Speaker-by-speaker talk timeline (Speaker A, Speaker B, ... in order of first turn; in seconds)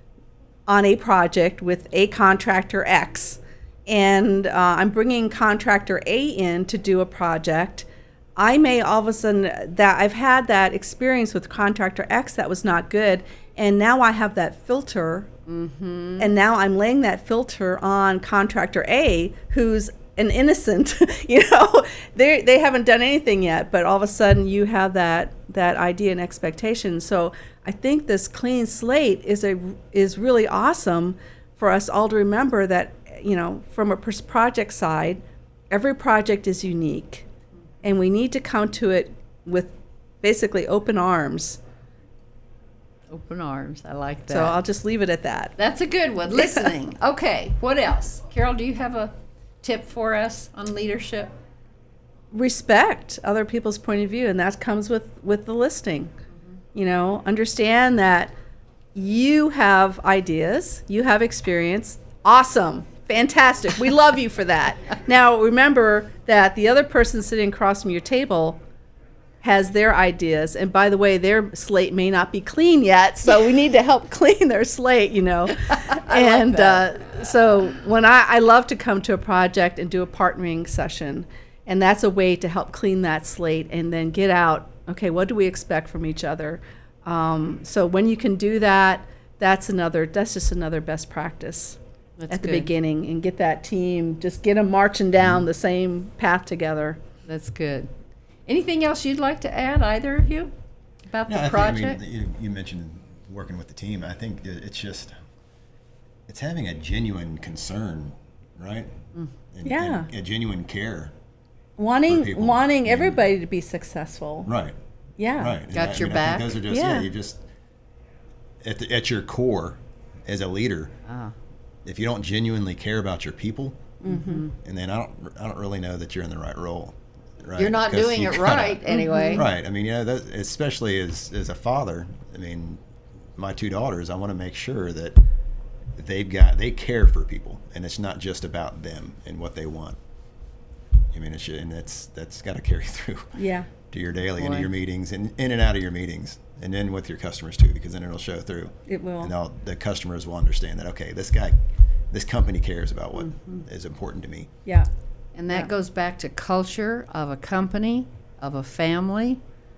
Speaker A: 0.7-15.3, 16.2-37.2, 37.8-41.6, 44.3-45.5, 46.4-46.7, 52.3-56.1, 56.7-58.3, 58.9-68.6, 69.4-91.8, 92.3-97.0, 109.6-110.1, 111.8-114.5, 115.2-115.6, 116.7-117.1, 124.0-124.4, 128.9-129.4, 143.3-143.7, 148.9-149.3
Speaker B: 15.5-16.3, 43.1-44.6, 45.6-51.3, 75.7-76.9, 92.2-92.7, 97.2-97.9, 98.5-100.5, 101.1-102.0, 115.7-116.6, 121.0-121.3, 124.1-124.5, 127.6-129.4, 144.4-144.7, 153.2-153.6, 155.3-159.4
Speaker C: 101.3-105.1, 106.3-108.9, 109.5-111.1, 112.1-113.2, 114.5-114.8, 115.4-117.4, 118.6-120.9, 121.8-123.8, 124.6-132.8, 133.4-135.2, 135.9-140.0, 141.1-143.4, 143.9-151.5, 152.1-154.5